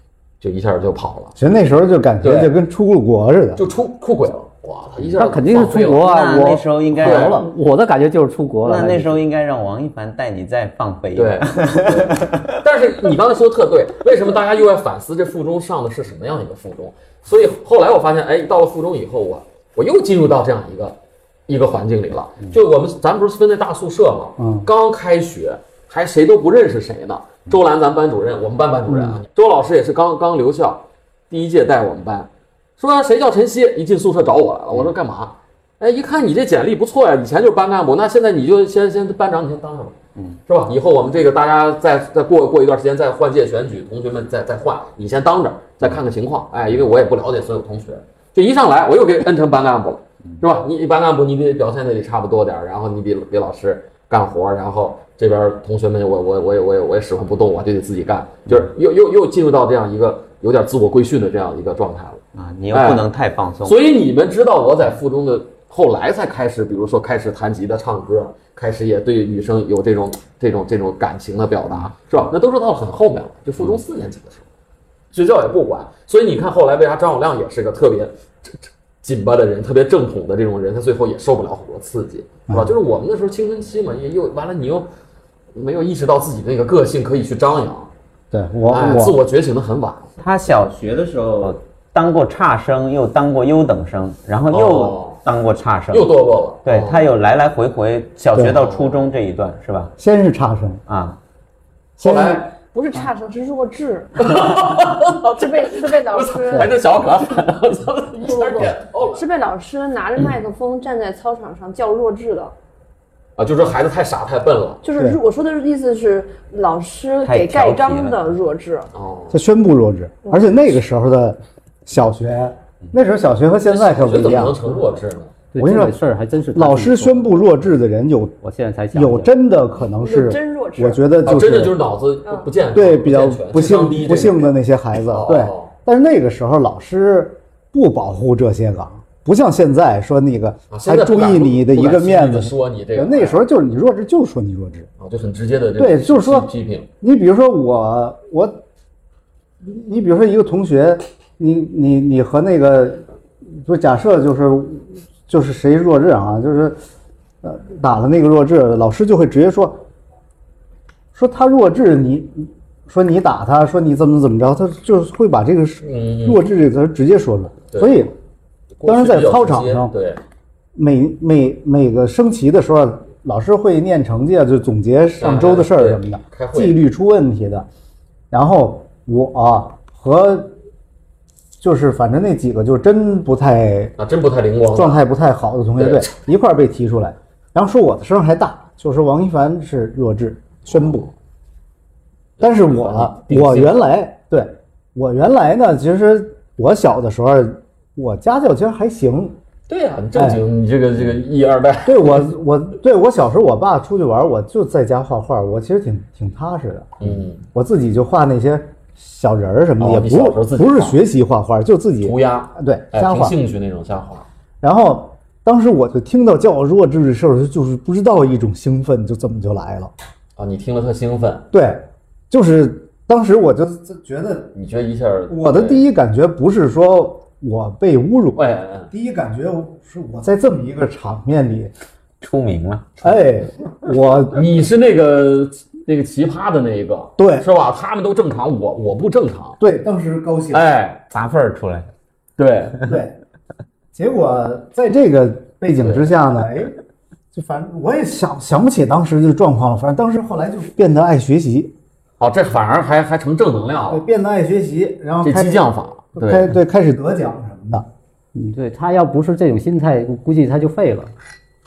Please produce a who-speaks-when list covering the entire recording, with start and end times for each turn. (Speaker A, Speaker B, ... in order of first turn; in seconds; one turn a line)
Speaker A: 0.4-1.4
Speaker B: 1.4-3.7
Speaker A: 2.2-2.5
Speaker A: 3.6-6.1
Speaker C: 5.1-9.2
Speaker D: 6.0-7.5
Speaker A: 7.0-7.4
Speaker D: 8.7-12.6
Speaker A: 11.2-40.0
Speaker B: 24.4-24.7
Speaker B: 28.9-29.2
Speaker A: 40.5-63.1
Speaker D: 62.3-63.8
Speaker A: 63.6-74.5
Speaker A: 75.1-84.9
Speaker A: 85.5-87.9
Speaker B: 88.3-89.2
Speaker A: 88.7-90.2
Speaker D: 90.2-96.1
Speaker A: 94.5-95.2
Speaker A: 95.9-97.1
Speaker D: 96.6-100.0
Speaker A: 98.5-99.0
Speaker B: 100.0-100.8
Speaker D: 100.9-101.2
Speaker A: 102.0-102.5
Speaker B: 102.0-102.5
Speaker E: 102.7-104.4
Speaker A: 104.2-109.3
Speaker E: 105.3-106.7
Speaker E: 108.2-112.5
Speaker A: 113.4-114.8
Speaker E: 114.8-118.9
Speaker B: 115.0-115.2
Speaker D: 117.2-118.3
Speaker A: 118.9-119.4
Speaker B: 119.3-124.8
Speaker A: 123.7-125.4
Speaker C: 125.5-127.3
Speaker B: 125.6-126.0
Speaker B: 126.5-128.4
Speaker C: 128.4-129.3
Speaker B: 128.9-131.8
Speaker E: 130.0-131.1
Speaker A: 131.2-134.6
Speaker B: 132.7-144.9
Speaker A: 135.1-135.7
Speaker A: 140.7-143.4
Speaker A: 145.0-146.9
Speaker B: 145.8-146.5
Speaker B: 147.0-148.6
Speaker B: 149.6-156.8
Speaker B: 157.4-159.9
Speaker B: 161.1-168.2
Speaker A: 165.8-166.4
Speaker A: 167.7-168.1
Speaker A: 168.8-170.2
Speaker B: 168.9-169.9
Speaker B: 170.8-177.7
Speaker A: 175.2-176.8
Speaker B: 178.3-180.6
Speaker B: 181.6-183.9
Speaker A: 184.0-185.0
Speaker B: 184.8-191.1
Speaker A: 185.8-186.2
Speaker A: 190.7-191.1
Speaker A: 192.4-193.8
Speaker B: 192.4-199.4
Speaker A: 199.7-202.3
Speaker B: 200.2-200.4
Speaker B: 201.8-213.4
Speaker A: 207.0-207.4
Speaker A: 209.8-211.0
Speaker A: 212.0-214.3
Speaker B: 214.6-219.9
Speaker A: 220.4-221.5
Speaker B: 221.5-224.6
Speaker A: 224.6-225.8
Speaker B: 225.3-231.7
Speaker A: 228.4-228.9
Speaker D: 232.2-233.0
Speaker A: 233.0-233.4
Speaker B: 233.0-234.4
Speaker A: 234.3-239.6
Speaker B: 237.2-237.5
Speaker B: 239.6-240.7
Speaker A: 240.5-241.1
Speaker D: 241.1-241.9
Speaker A: 242.4-242.9
Speaker B: 242.8-243.2
Speaker B: 243.9-246.8
Speaker A: 245.8-246.1
Speaker B: 247.3-251.8
Speaker A: 252.2-254.1
Speaker B: 253.9-255.7
Speaker A: 255.2-256.6
Speaker B: 256.2-257.9
Speaker C: 258.4-261.1